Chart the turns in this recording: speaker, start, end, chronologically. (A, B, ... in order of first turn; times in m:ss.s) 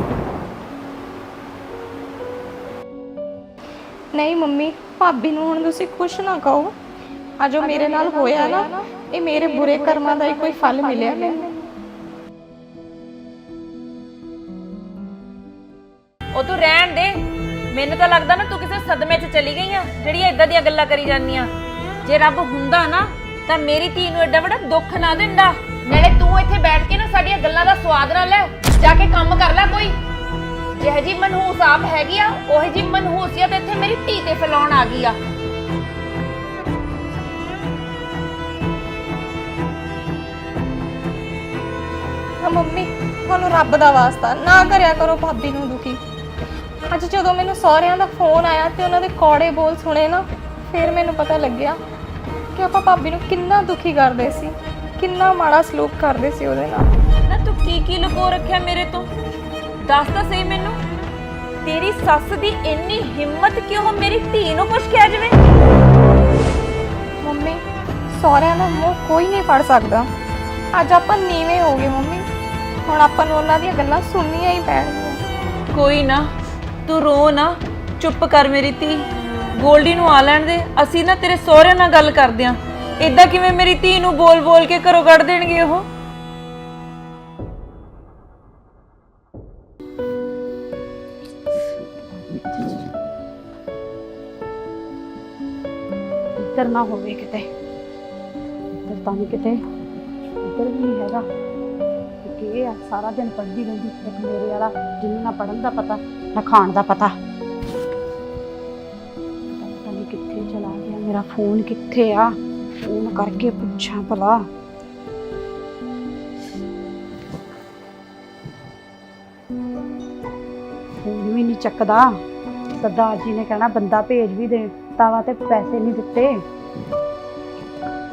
0:04.1-0:06.7 A
0:07.4-0:11.5 A
0:07.6-0:08.7 B
0:09.3-0:11.5 B
0:16.3-0:17.2 B
0:17.7-0:21.5 B
0:22.0-0:29.9 B
0:30.8-0:35.2 B
0:42.4-0:46.0 A
0:46.9-0:51.8 A
0:52.5-0:56.9 A
0:57.3-0:59.1 B
0:59.9-1:00.8 B
1:01.6-1:05.4 B
1:07.2-1:10.1 A
1:10.7-1:12.3 A
1:12.8-1:15.2 A
1:15.7-1:16.3 B
1:16.8-1:25.8 B
1:36.4-1:37.4 C
1:38.8-1:39.6 C
1:40.4-1:41.2 C
1:42.2-1:47.1 C
1:49.5-1:52.3 C
1:52.8-1:54.4 C
2:01.0-2:02.1 C
2:02.8-2:06.4 C